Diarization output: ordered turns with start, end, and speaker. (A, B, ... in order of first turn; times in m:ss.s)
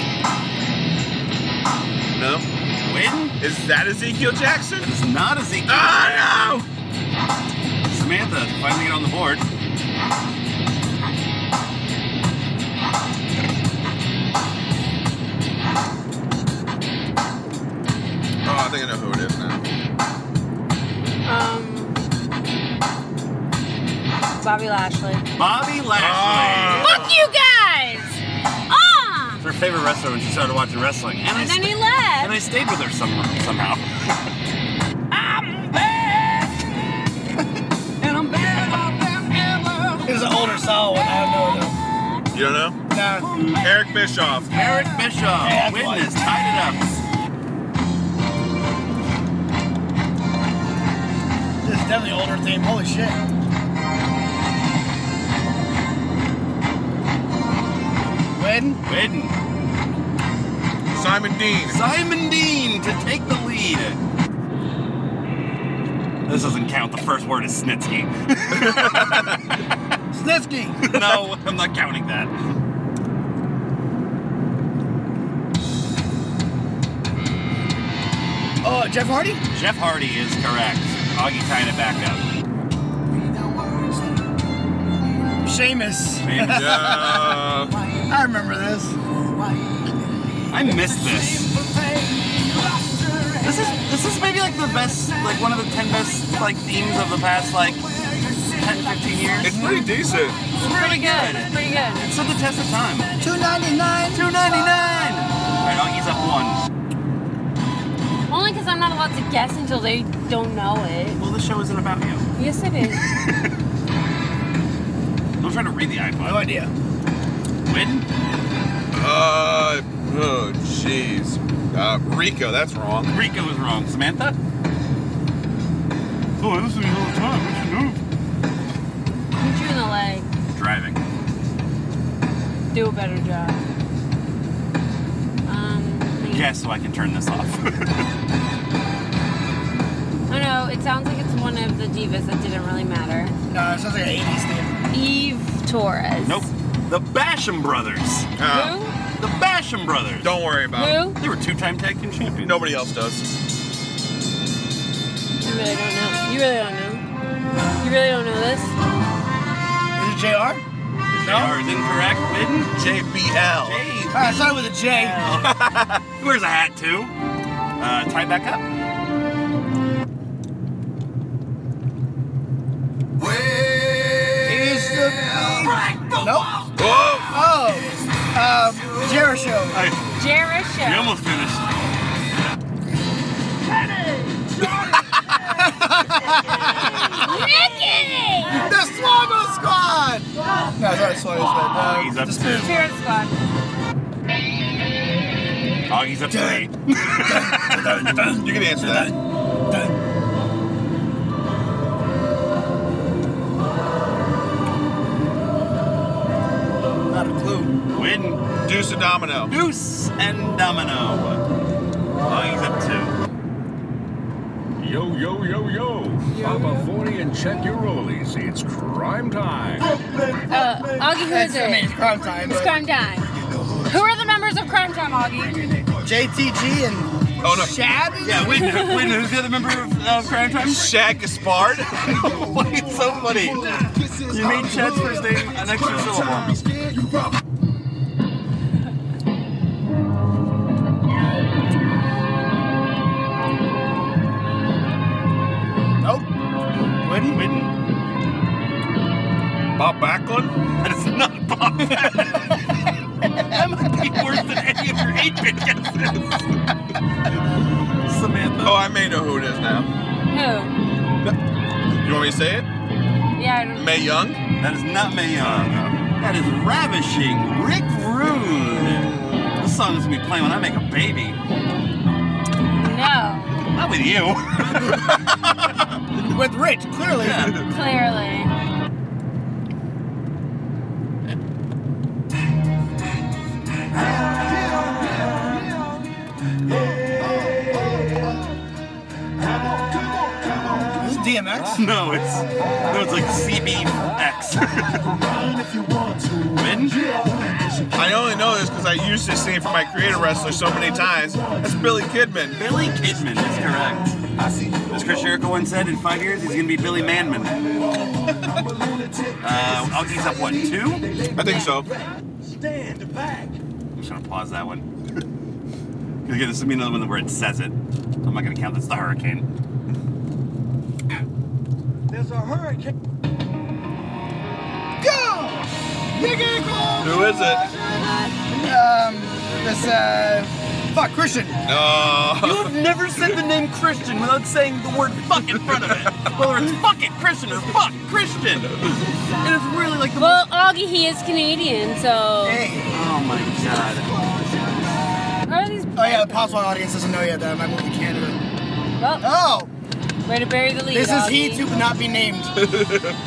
0:02.1-0:02.4 A
0:02.8-0:03.3 B
0:03.4-0:04.9 A
0:04.8-0:06.2 B
0:05.7-0:06.6 A
0:07.9-0:09.4 B
0:18.4-0:19.6 A
0:21.2-0:22.0 C
0:24.4-0:25.2 C
0:25.3-0:27.1 B
0:26.0-0:27.2 A
0:26.8-0:29.4 C
0:29.4-0:34.2 B
0:31.3-0:32.4 C
0:38.2-0:38.8 B
0:40.0-0:41.8 D
0:42.3-0:42.8 A
0:42.9-0:43.3 D
0:43.6-0:44.5 A
0:44.5-0:46.9 B
0:45.4-0:46.1 D
0:51.6-0:53.2 D
0:58.3-0:58.8 D
0:58.8-0:59.3 B
1:00.9-1:01.8 A
1:01.7-1:04.0 B
1:06.3-1:09.3 B
1:08.5-1:09.3 A
1:10.1-1:11.3 D
1:10.8-1:12.3 B
1:18.6-1:19.4 D
1:19.5-1:22.2 B
1:25.4-1:27.4 D
1:26.2-1:27.2 B
1:26.4-1:27.7 A
1:28.1-1:29.0 D
1:30.5-1:31.5 B
1:33.4-1:39.6 B
1:39.4-1:40.4 A
1:39.4-1:39.9 D
1:40.6-1:42.1 C
1:40.6-1:43.1 B
1:43.2-1:44.3 D
1:44.1-1:46.6 B
1:48.3-1:51.2 C
1:51.2-1:52.3 B
1:52.4-1:53.0 C
1:53.0-1:53.4 B
1:55.4-1:56.5 B
1:56.2-1:56.7 D
1:57.6-1:58.0 B
1:58.9-2:03.1 A
2:03.1-2:04.4 B
2:06.4-2:08.0 B
2:09.4-2:10.3 C
2:10.5-2:11.0 B
2:12.7-2:13.6 C
2:15.4-2:16.5 C
2:16.3-2:18.1 B
2:20.3-2:23.3 C
2:23.5-2:24.8 D
2:24.9-2:26.5 C
2:26.2-2:28.3 B
2:28.4-2:28.8 A
2:28.4-2:28.9 C
2:29.2-2:30.3 B
2:30.2-2:31.0 A
2:30.7-2:31.2 C
2:31.2-2:32.6 B
2:32.4-2:33.2 A
2:35.3-2:37.0 C
2:37.8-2:38.7 C
2:39.9-2:40.6 D
2:41.1-2:42.7 B
2:41.2-2:41.6 D
2:42.7-2:43.8 A
2:43.6-2:45.6 B
2:44.1-2:45.2 D
2:45.4-2:46.0 A
2:46.2-2:47.1 B
2:47.8-2:48.6 B
2:54.4-2:56.5 D
2:56.8-2:57.3 A
2:57.3-2:59.9 D
2:59.7-3:00.0 B
3:00.2-3:01.2 C
3:00.8-3:01.8 B
3:05.6-3:07.2 D
3:07.2-3:08.7 C
3:08.5-3:12.8 D
3:11.6-3:12.8 B
3:12.6-3:13.3 C
3:15.9-3:18.2 B
3:16.3-3:20.0 D
3:18.2-3:19.2 A
3:27.1-3:27.8 D
3:27.9-3:28.4 B
3:28.6-3:29.5 A
3:29.5-3:31.4 B
3:32.2-3:33.2 B
3:34.8-3:39.9 E
3:40.5-3:43.3 C
3:41.2-3:42.8 D
3:43.8-3:45.8 C
3:46.0-3:48.8 D
3:47.4-3:47.8 A
3:48.2-3:51.0 B
3:48.6-3:49.2 C
3:50.6-3:52.0 A
3:52.0-3:53.6 B
3:53.6-3:55.4 D
3:54.2-3:56.6 B
4:06.0-4:06.3 D
4:07.0-4:07.4 D
4:07.2-4:07.7 B
4:09.8-4:10.6 A
4:10.8-4:12.6 B
4:13.3-4:16.4 B
4:18.0-4:18.8 B
4:18.6-4:19.9 A
4:20.3-4:20.7 C
4:22.0-4:22.7 A
4:23.4-4:23.9 C
4:23.7-4:24.4 A
4:24.6-4:31.4 B
4:25.4-4:25.9 A
4:32.7-4:33.6 C
4:33.7-4:35.2 B
4:36.1-4:37.6 D
4:37.2-4:37.6 B
4:37.6-4:38.5 C
4:51.0-4:51.8 D
4:51.7-4:55.2 B
4:56.5-4:57.0 B
4:57.9-5:02.6 A
5:02.5-5:04.2 B
5:04.9-5:07.6 B
5:09.4-5:11.0 B
5:11.4-5:11.9 A
5:11.4-5:11.8 C
5:13.9-5:14.8 B
5:16.2-5:19.4 B
5:25.0-5:27.6 D
5:27.0-5:27.7 A
5:28.0-5:28.3 C
5:28.4-5:31.6 D
5:31.7-5:32.7 A
5:32.4-5:40.4 B
5:40.2-5:42.6 C
5:42.4-5:43.0 D
5:42.9-5:44.3 B
5:45.5-5:46.6 C
5:46.0-5:48.4 D
5:49.0-5:49.3 C
5:49.2-5:49.7 D
5:50.2-5:51.7 C
5:50.9-5:52.6 D
5:52.6-5:53.2 A